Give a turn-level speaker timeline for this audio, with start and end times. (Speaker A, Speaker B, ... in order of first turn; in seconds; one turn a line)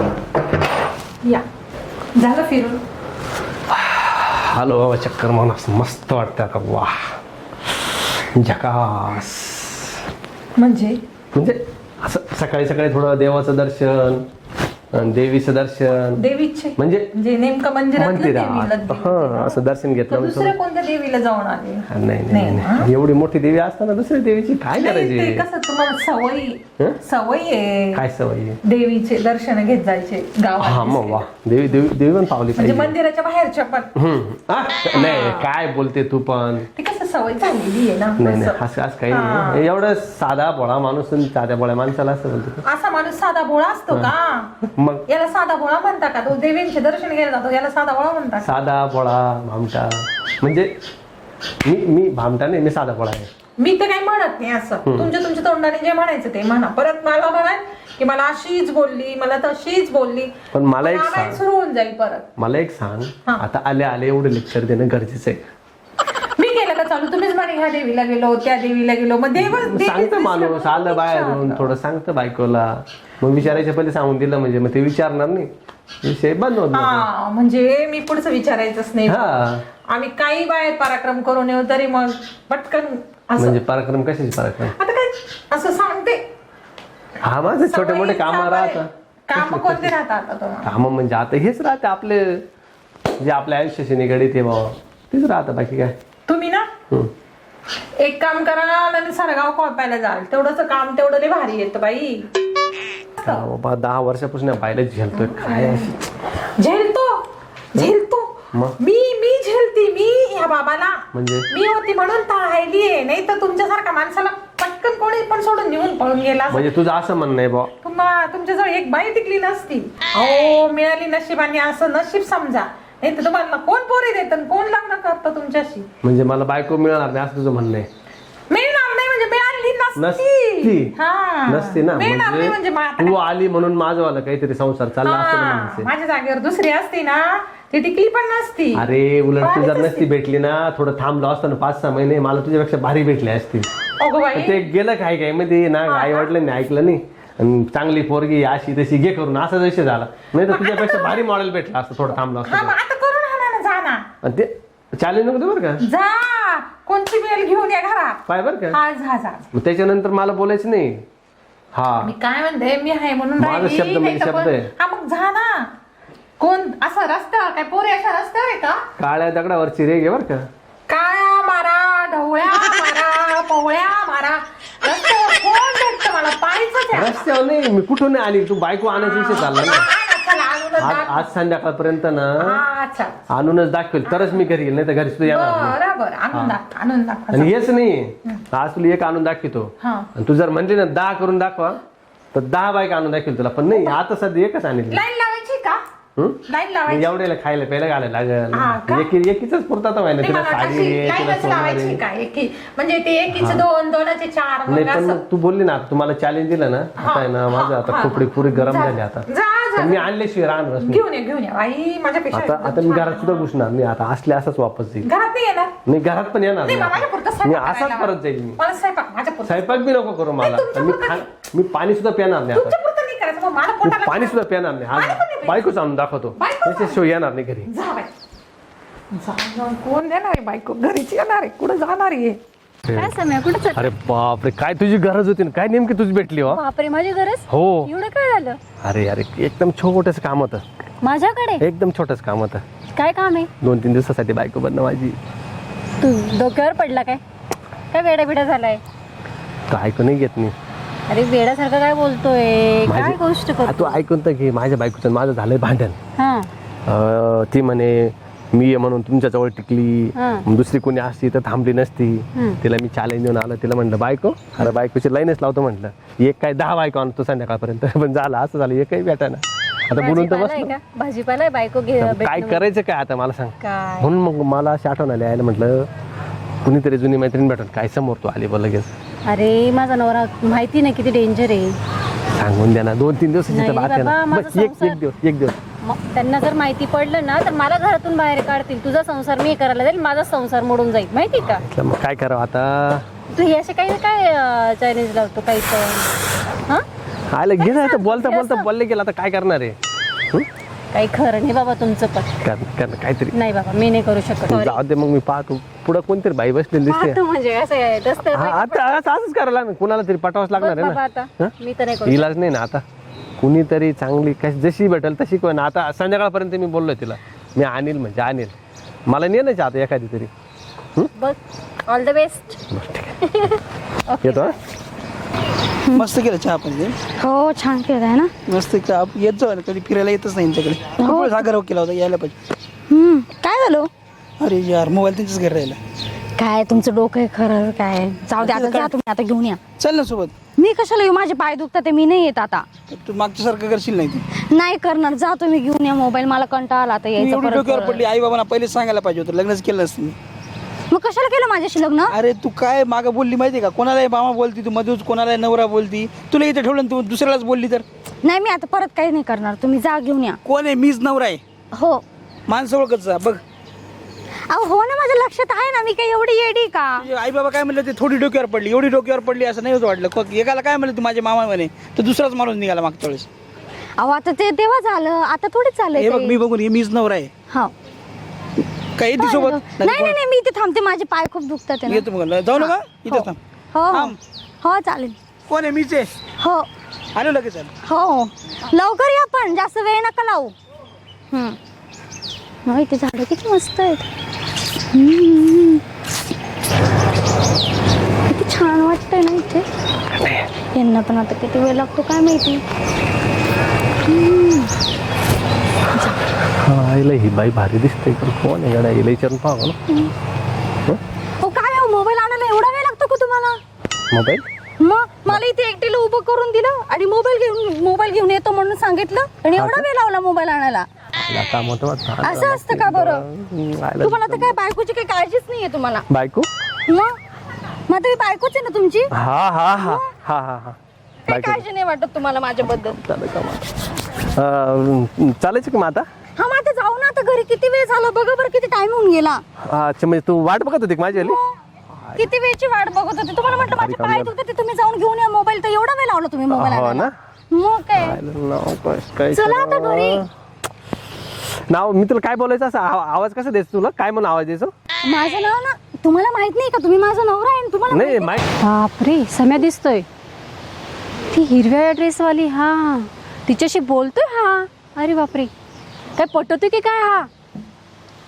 Speaker A: 2.1-2.8
Speaker B: 3.7-7.1
Speaker B: 8.3-9.9
Speaker A: 10.6-11.0
Speaker B: 11.3-14.2
Speaker B: 14.9-16.2
Speaker A: 16.2-22.9
Speaker B: 16.8-17.1
Speaker B: 18.0-20.5
Speaker B: 21.9-25.4
Speaker A: 24.7-28.0
Speaker B: 27.9-28.6
Speaker A: 28.6-31.2
Speaker B: 30.6-32.9
Speaker A: 32.5-33.9
Speaker B: 34.0-36.7
Speaker A: 34.9-35.5
Speaker A: 36.8-38.6
Speaker B: 38.2-42.6
Speaker A: 39.1-39.6
Speaker A: 42.6-44.5
Speaker B: 44.8-45.0
Speaker A: 45.1-48.5
Speaker B: 48.4-50.7
Speaker B: 51.6-53.3
Speaker A: 53.6-62.2
Speaker B: 54.9-55.1
Speaker B: 60.5-61.4
Speaker B: 62.4-65.4
Speaker A: 66.4-71.7
Speaker B: 69.4-75.5
Speaker B: 76.0-77.1
Speaker A: 76.7-79.2
Speaker B: 79.0-79.6
Speaker A: 79.9-83.6
Speaker B: 83.4-84.8
Speaker A: 84.7-86.2
Speaker B: 87.2-89.9
Speaker A: 87.6-90.8
Speaker B: 90.6-92.4
Speaker B: 93.2-96.0
Speaker A: 96.3-96.7
Speaker A: 98.0-102.3
Speaker B: 103.2-106.0
Speaker A: 105.1-105.9
Speaker A: 106.6-108.3
Speaker A: 108.8-116.7
Speaker B: 111.1-111.5
Speaker B: 116.5-117.7
Speaker A: 117.8-125.8
Speaker B: 126.0-127.9
Speaker A: 128.5-133.2
Speaker B: 129.9-130.9
Speaker B: 131.5-135.9
Speaker A: 135.0-138.8
Speaker B: 138.7-143.7
Speaker A: 139.4-140.1
Speaker A: 144.0-144.6
Speaker B: 144.3-152.7
Speaker A: 145.8-146.3
Speaker A: 150.5-151.2
Speaker A: 152.4-154.1
Speaker B: 154.2-155.8
Speaker A: 155.8-158.2
Speaker B: 158.3-158.8
Speaker A: 158.7-159.4
Speaker B: 159.5-161.0
Speaker B: 161.7-162.1
Speaker A: 162.0-165.7
Speaker B: 163.4-164.7
Speaker A: 166.4-168.8
Speaker B: 169.0-170.4
Speaker A: 170.9-177.3
Speaker B: 176.9-179.9
Speaker A: 178.9-181.3
Speaker B: 180.8-182.3
Speaker A: 182.4-183.2
Speaker B: 183.3-185.8
Speaker A: 184.1-184.4
Speaker A: 185.2-187.6
Speaker B: 187.3-191.8
Speaker A: 189.8-190.1
Speaker B: 192.3-195.0
Speaker A: 193.7-194.0
Speaker A: 194.9-195.8
Speaker B: 196.2-202.0
Speaker A: 196.5-197.2
Speaker A: 198.5-199.1
Speaker A: 200.2-205.2
Speaker B: 203.3-203.6
Speaker B: 204.7-211.0
Speaker A: 207.0-210.1
Speaker A: 210.8-213.5
Speaker B: 212.3-215.1
Speaker A: 215.0-215.7
Speaker B: 215.8-218.6
Speaker A: 216.6-219.8
Speaker B: 219.4-222.8
Speaker A: 220.4-221.2
Speaker A: 222.5-224.4
Speaker B: 223.8-227.7
Speaker A: 224.9-225.7
Speaker A: 226.3-227.0
Speaker A: 227.7-228.1
Speaker A: 229.1-232.4
Speaker B: 232.8-233.2
Speaker C: 233.0-233.9
Speaker B: 233.7-236.6
Speaker C: 236.5-238.6
Speaker B: 237.5-237.9
Speaker B: 238.8-240.6
Speaker C: 241.0-241.6
Speaker B: 241.6-242.6
Speaker C: 242.9-243.5
Speaker B: 243.6-245.2
Speaker C: 246.0-247.2
Speaker C: 247.9-248.8
Speaker B: 249.7-250.5
Speaker C: 251.1-254.0
Speaker B: 252.8-256.0
Speaker C: 256.2-256.5
Speaker B: 256.9-270.7
Speaker C: 260.1-260.4
Speaker C: 269.9-272.6
Speaker B: 272.0-275.9
Speaker C: 273.6-274.1
Speaker B: 276.6-278.9
Speaker C: 279.3-281.7
Speaker B: 282.3-285.6
Speaker C: 283.5-285.0
Speaker C: 285.8-291.6
Speaker B: 291.4-293.0
Speaker C: 293.3-296.1
Speaker B: 297.3-299.8
Speaker C: 297.6-298.7
Speaker C: 300.9-302.3
Speaker B: 302.4-303.4
Speaker C: 303.3-304.8
Speaker B: 304.5-307.2
Speaker C: 306.9-309.0
Speaker B: 308.2-311.5
Speaker C: 310.5-312.3
Speaker B: 312.0-312.8
Speaker B: 313.4-318.5
Speaker B: 319.1-320.3
Speaker C: 321.1-322.6
Speaker B: 322.7-323.2
Speaker C: 323.2-324.6
Speaker B: 324.2-324.6
Speaker D: 326.0-326.9
Speaker E: 327.2-328.3
Speaker D: 328.5-332.3
Speaker E: 330.9-331.5
Speaker E: 332.9-333.9
Speaker D: 334.4-335.8
Speaker E: 336.4-339.6
Speaker D: 338.4-338.9
Speaker D: 339.8-340.4
Speaker E: 340.5-342.6
Speaker D: 342.9-344.2
Speaker E: 344.3-348.0
Speaker D: 347.9-350.1
Speaker E: 350.9-352.1
Speaker D: 352.1-357.8
Speaker E: 358.2-360.4
Speaker D: 360.4-361.4
Speaker E: 361.7-362.0
Speaker D: 362.5-363.4
Speaker E: 364.5-367.1
Speaker D: 367.0-373.3
Speaker E: 374.0-376.4
Speaker D: 375.9-377.3
Speaker D: 378.9-380.1
Speaker E: 379.2-385.2
Speaker D: 381.9-383.4
Speaker D: 385.5-386.1
Speaker E: 386.4-386.7
Speaker D: 387.1-387.7
Speaker E: 387.8-390.5
Speaker E: 391.3-391.6
Speaker E: 392.6-394.1
Speaker E: 394.9-395.8
Speaker E: 398.3-399.7
Speaker B: 400.1-400.5
Speaker E: 400.7-402.6
Speaker E: 404.1-404.7
Speaker B: 406.6-409.8
Speaker E: 411.4-413.6
Speaker B: 414.1-414.4
Speaker E: 414.8-420.9
Speaker B: 419.6-419.9
Speaker B: 421.2-424.5
Speaker E: 422.2-423.2
Speaker E: 424.0-426.1
Speaker B: 426.1-426.5
Speaker E: 426.9-427.2
Speaker E: 427.9-429.1
Speaker B: 429.1-430.8
Speaker E: 429.8-430.1
Speaker E: 431.2-433.0
Speaker B: 431.3-431.6
Speaker B: 432.7-433.7
Speaker B: 434.2-436.1
Speaker E: 436.4-439.4
Speaker B: 439.6-441.4
Speaker E: 441.1-441.5
Speaker B: 441.9-442.2
Speaker E: 442.1-448.2
Speaker B: 443.5-444.3
Speaker B: 446.5-447.1
Speaker B: 448.0-450.3
Speaker E: 449.3-450.2
Speaker B: 451.7-454.7
Speaker E: 455.0-458.4
Speaker B: 457.9-458.4
Speaker C: 458.6-460.1
Speaker C: 461.3-465.5
Speaker C: 466.1-467.3